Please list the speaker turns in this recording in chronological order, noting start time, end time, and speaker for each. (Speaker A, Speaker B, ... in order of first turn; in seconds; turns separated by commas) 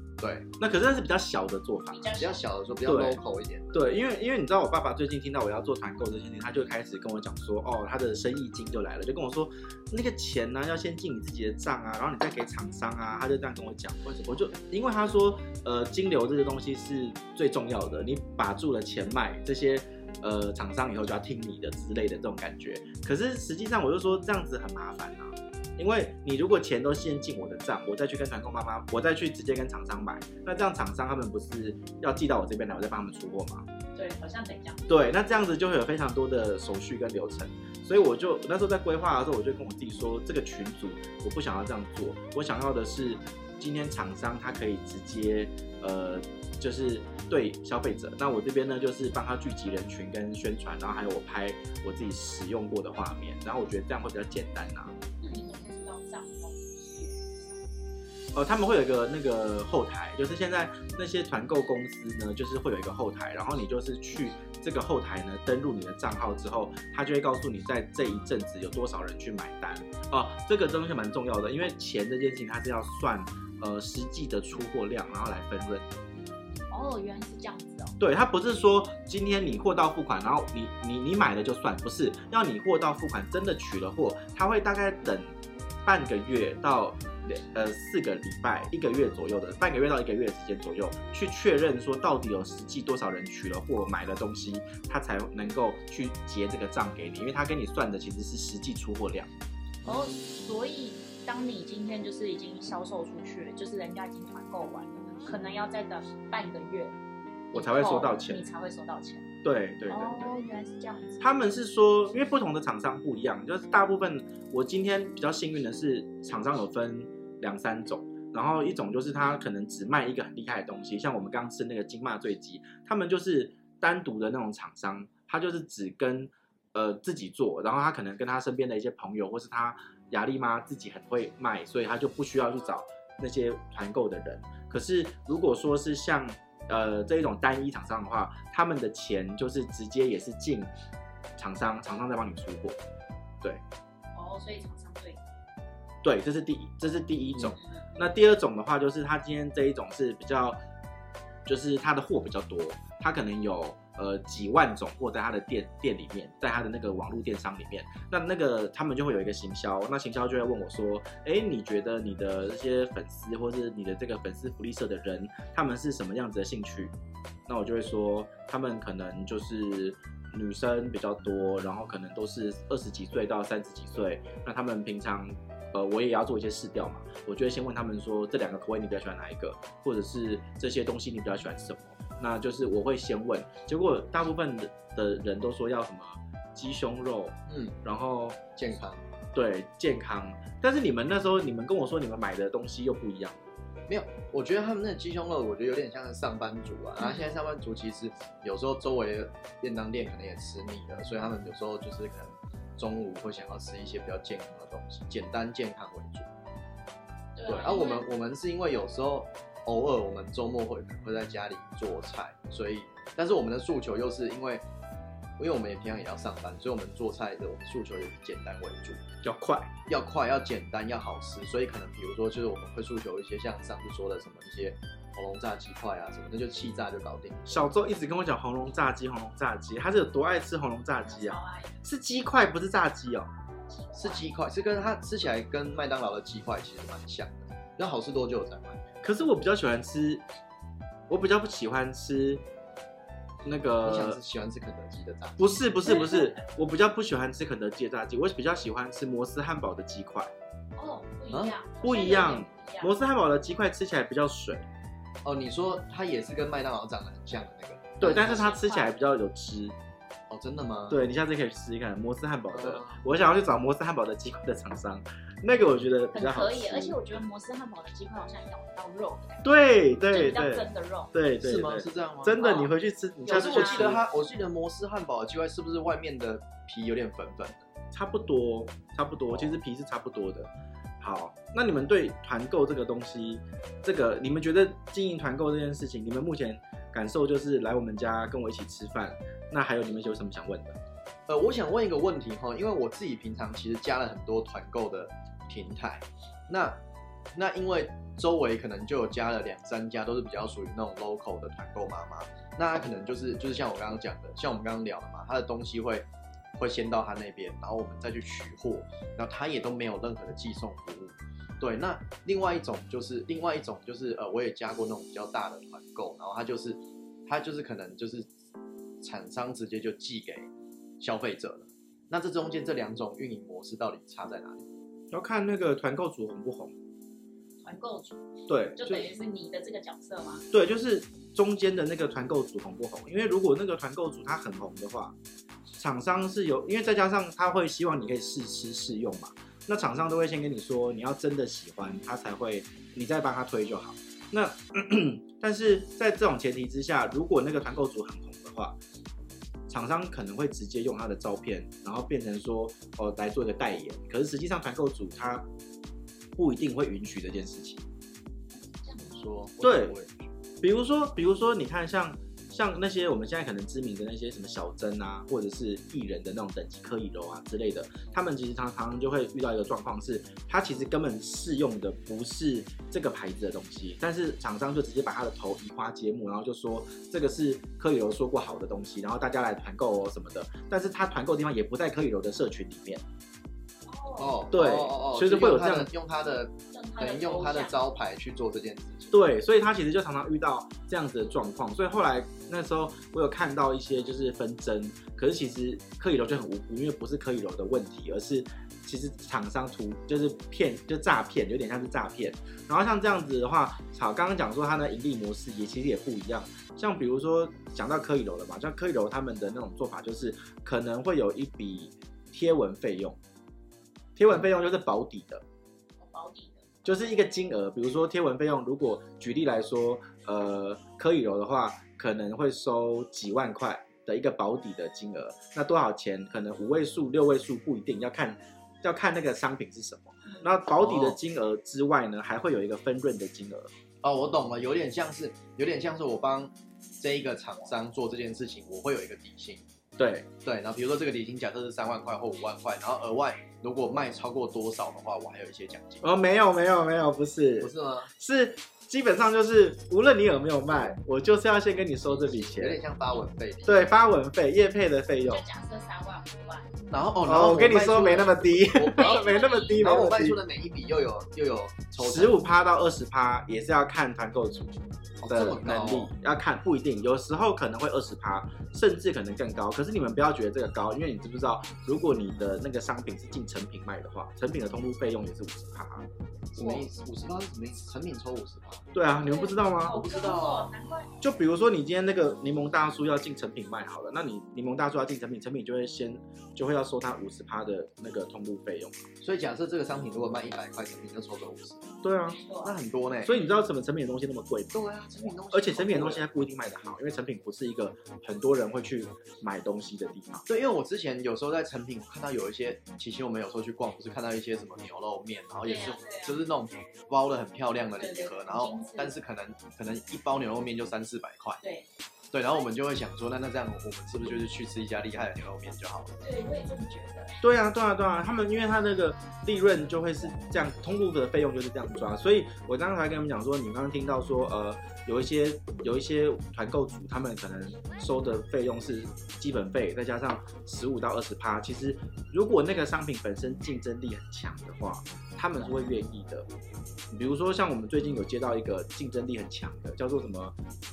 Speaker A: 0.2-0.5, Speaker B: 0.6-2.1, Speaker C: 1.9-2.4, Speaker A: 2.2-3.9, Speaker B: 2.9-3.2, Speaker B: 3.7-33.7, Speaker A: 14.0-14.5, Speaker C: 33.9-34.9, Speaker B: 34.9-54.9, Speaker C: 55.2-57.7, Speaker B: 58.3-75.9, Speaker C: 76.7-78.0, Speaker B: 78.0-99.3, Speaker C: 99.8-107.0, Speaker C: 107.5-109.3, Speaker B: 107.5-108.4, Speaker B: 109.4-110.3, Speaker C: 109.9-111.3, Speaker B: 111.2-140.7, Speaker B: 141.4-142.8, Speaker C: 144.2-145.2, Speaker B: 146.0-150.6, Speaker B: 151.4-166.9, Speaker B: 167.5-188.4, Speaker A: 187.5-187.8, Speaker A: 188.6-189.0, Speaker B: 189.3-193.4, Speaker A: 193.9-206.3, Speaker C: 197.0-197.4, Speaker C: 207.3-208.1, Speaker A: 207.4-214.6, Speaker A: 215.4-219.0, Speaker B: 219.2-219.7, Speaker A: 219.9-227.6, Speaker B: 227.5-233.3, Speaker C: 231.0-231.8, Speaker C: 233.7-234.2, Speaker A: 233.9-238.8, Speaker B: 239.0-240.2, Speaker B: 241.1-242.4, Speaker B: 243.4-244.2, Speaker A: 243.8-245.6, Speaker B: 245.4-250.3, Speaker C: 245.8-246.4, Speaker C: 250.8-252.9, Speaker A: 251.3-251.6, Speaker B: 251.8-254.7, Speaker A: 255.2-258.5, Speaker B: 258.0-259.8, Speaker C: 258.1-258.9, Speaker A: 260.3-261.0, Speaker B: 260.9-267.0, Speaker A: 262.5-263.0, Speaker C: 266.1-271.1, Speaker B: 269.4-274.0, Speaker A: 271.4-272.7, Speaker C: 272.4-272.7, Speaker C: 273.2-273.9, Speaker A: 273.3-277.7, Speaker B: 277.9-290.8, Speaker A: 279.3-279.6, Speaker A: 291.3-296.8, Speaker A: 297.3-318.3, Speaker A: 319.0-324.7, Speaker B: 325.1-326.7, Speaker C: 327.6-328.2, Speaker B: 328.5-329.1, Speaker C: 328.8-330.4, Speaker B: 330.5-335.1, Speaker B: 335.8-348.8, Speaker B: 349.7-355.4, Speaker B: 356.4-357.8, Speaker C: 358.8-359.2, Speaker A: 359.0-360.3, Speaker B: 359.6-360.0, Speaker B: 360.6-383.0, Speaker C: 383.9-384.4, Speaker A: 384.2-389.1, Speaker B: 384.5-385.9, Speaker C: 386.7-387.8, Speaker B: 389.1-413.2, Speaker B: 414.2-415.4, Speaker C: 416.0-416.6, Speaker B: 416.8-433.7, Speaker A: 430.8-431.2, Speaker A: 434.0-439.6, Speaker B: 440.0-440.3, Speaker A: 440.4-446.1, Speaker B: 446.0-452.8, Speaker A: 447.6-448.1, Speaker A: 452.2-453.9, Speaker B: 453.7-455.4, Speaker C: 455.2-456.8, Speaker A: 456.9-462.4, Speaker B: 457.2-460.4, Speaker C: 458.9-459.8, Speaker B: 462.0-476.1, Speaker A: 465.2-466.1, Speaker A: 476.6-478.9, Speaker C: 476.6-476.9, Speaker B: 478.9-479.9, Speaker C: 479.1-481.1, Speaker A: 479.9-480.7, Speaker B: 481.2-489.1, Speaker A: 489.2-491.9, Speaker B: 492.0-492.4, Speaker C: 492.3-492.8, Speaker A: 492.6-493.4, Speaker B: 493.2-494.8, Speaker A: 494.7-496.3, Speaker B: 495.5-500.5, Speaker A: 500.5-511.6, Speaker C: 505.6-506.4, Speaker C: 507.9-509.1, Speaker C: 511.6-511.9, Speaker A: 512.3-516.1, Speaker C: 516.2-517.4, Speaker B: 517.4-536.5, Speaker B: 537.1-540.6